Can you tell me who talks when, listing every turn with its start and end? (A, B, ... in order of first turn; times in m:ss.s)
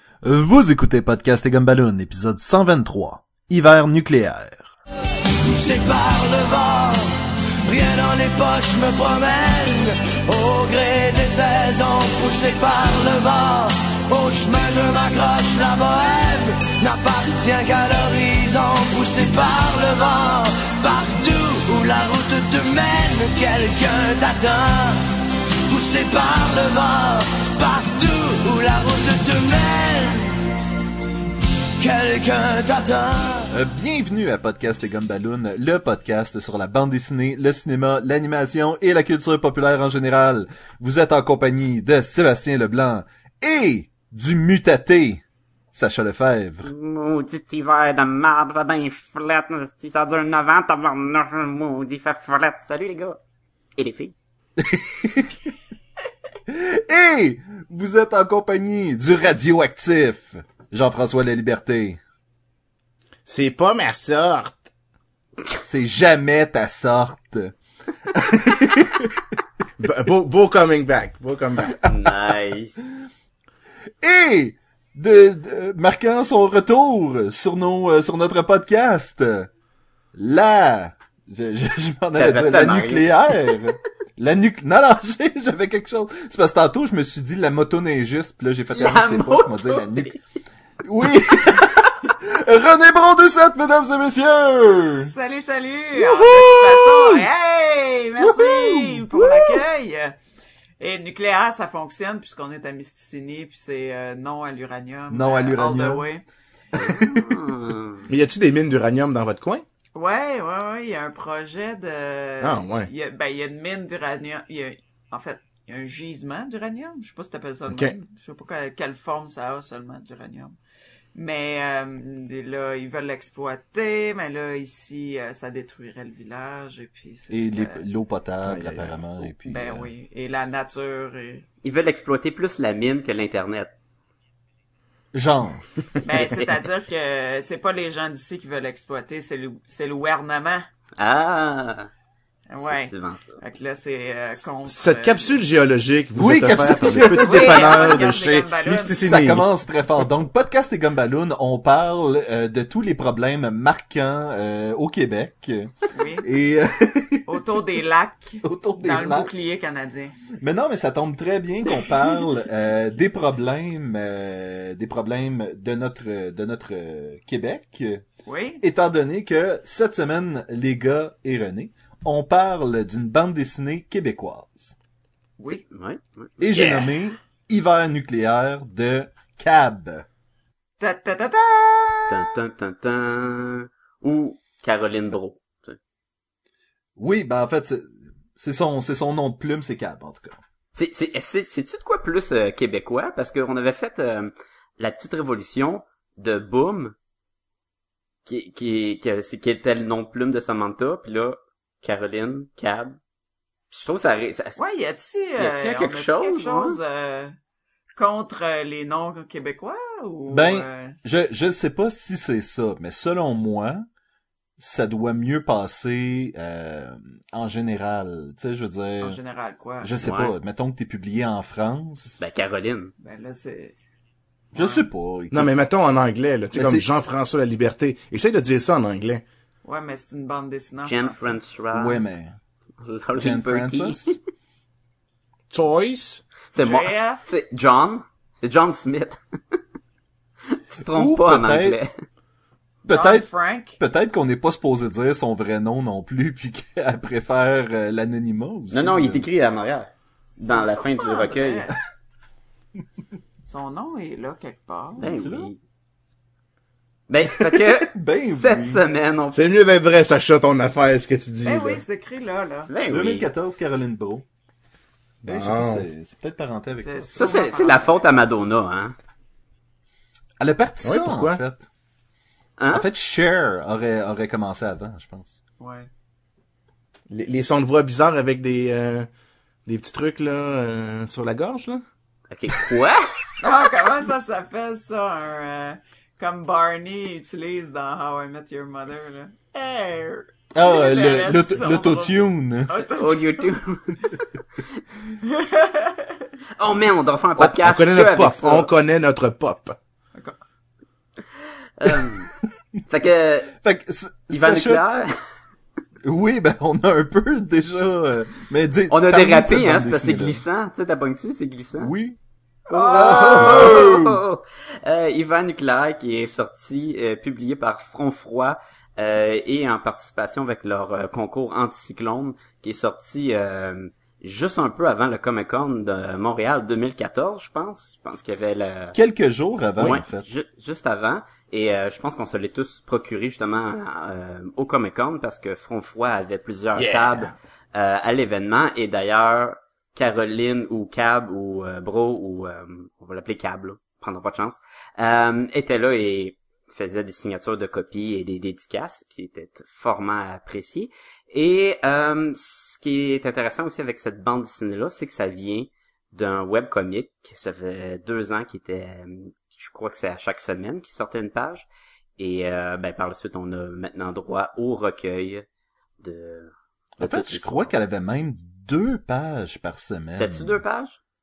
0:00.2-0:04.7 A
0:05.4-0:25.0 B
0:25.7-0:30.3 B
0:31.8-0:33.5 B
0:33.5-0:46.7 A
0:46.6-0:53.2 C
0:53.8-0:54.1 C
0:54.6-0:55.4 A
0:56.5-1:02.0 A
1:03.3-1:04.7 D
1:05.6-1:07.5 A
1:08.1-1:09.3 A
1:09.8-1:11.8 D
1:11.8-1:12.8 C
1:14.0-1:19.5 A
1:20.1-1:30.1 A
1:22.2-1:23.6 C
1:28.7-1:30.4 C
1:30.8-1:35.1 A
1:34.7-1:40.2 E
1:36.0-1:37.2 A
1:38.2-1:39.6 A
1:40.8-1:46.2 E
1:45.1-1:46.0 A
1:46.9-1:48.0 C
1:48.1-1:49.6 D
1:49.9-2:00.6 E
1:52.4-1:52.9 D
1:57.7-1:57.9 D
2:01.1-2:07.8 E
2:07.3-2:09.9 A
2:08.4-2:09.0 D
2:09.4-2:11.4 E
2:11.6-2:13.7 C
2:15.1-2:15.6 A
2:16.0-2:20.6 E
2:16.1-2:16.5 C
2:21.0-2:21.9 C
2:22.5-2:25.4 E
2:22.6-2:23.4 C
2:24.6-2:29.4 D
2:26.2-2:28.0 A
2:26.8-2:29.0 E
2:29.0-2:37.4 A
2:35.9-2:36.3 E
2:37.3-2:40.1 E
2:38.4-2:39.3 A
2:40.4-2:48.0 A
2:48.2-2:48.6 E
2:48.6-2:54.7 A
2:55.5-2:56.7 C
2:56.4-3:00.0 A
3:00.8-3:02.3 E
3:02.1-3:05.8 C
3:07.0-3:10.4 A
3:10.7-3:16.9 C
3:18.2-3:23.0 C
3:23.7-3:24.6 C
3:24.6-3:27.3 E
3:25.4-3:26.8 C
3:27.9-3:31.0 E
3:30.3-3:33.8 A
3:34.6-3:39.2 A
3:39.0-3:39.9 E
3:39.8-3:42.2 A
3:40.0-3:40.3 C
3:42.2-3:42.9 C
3:43.0-3:43.7 E
3:44.5-3:45.5 A
3:44.6-3:44.9 E
3:45.3-3:49.2 D
3:46.5-3:46.9 A
3:49.6-3:51.4 E
3:50.8-3:52.0 C
3:51.7-3:52.4 A
3:52.8-3:54.2 C
3:53.1-3:54.2 A
3:55.5-3:56.2 D
3:56.5-3:59.6 C
3:56.6-3:57.2 E
4:00.5-4:01.9 C
4:00.9-4:01.8 A
4:02.8-4:09.2 A
4:02.9-4:03.8 E
4:08.7-4:11.7 C
4:10.4-4:11.8 E
4:13.4-4:15.1 E
4:15.0-4:15.6 C
4:15.0-4:15.5 A
4:17.1-4:19.4 C
4:17.3-4:18.8 A
4:19.3-4:21.8 D
4:21.4-4:22.7 E
4:22.7-4:23.3 C
4:22.9-4:24.2 A
4:25.2-4:27.3 A
4:25.2-4:25.8 D
4:26.8-4:28.0 E
4:27.2-4:28.9 C
4:30.4-4:31.7 A
4:30.8-4:31.4 D
4:32.6-4:32.9 C
4:32.7-4:35.4 A
4:35.6-4:35.9 E
4:37.1-4:39.1 D
4:39.6-4:41.8 D
4:42.3-4:43.2 C
4:43.4-4:53.5 E
4:50.5-4:52.7 A
4:53.0-4:54.3 C
4:55.2-4:56.2 E
4:56.6-4:58.7 C
4:57.4-4:59.8 D
5:01.8-5:02.3 C
5:02.9-5:03.6 C
5:03.6-5:04.8 A
5:04.3-5:05.1 C
5:06.0-5:10.4 A
5:08.9-5:11.9 C
5:11.8-5:12.2 A
5:12.7-5:13.9 E
5:12.7-5:29.0 C
5:12.8-5:14.2 A
5:28.9-5:30.2 A
5:29.8-6:01.6 C
5:36.8-5:37.3 D
6:02.2-6:05.4 C
6:06.0-6:07.7 C
6:07.0-6:10.6 A
6:10.2-6:11.0 C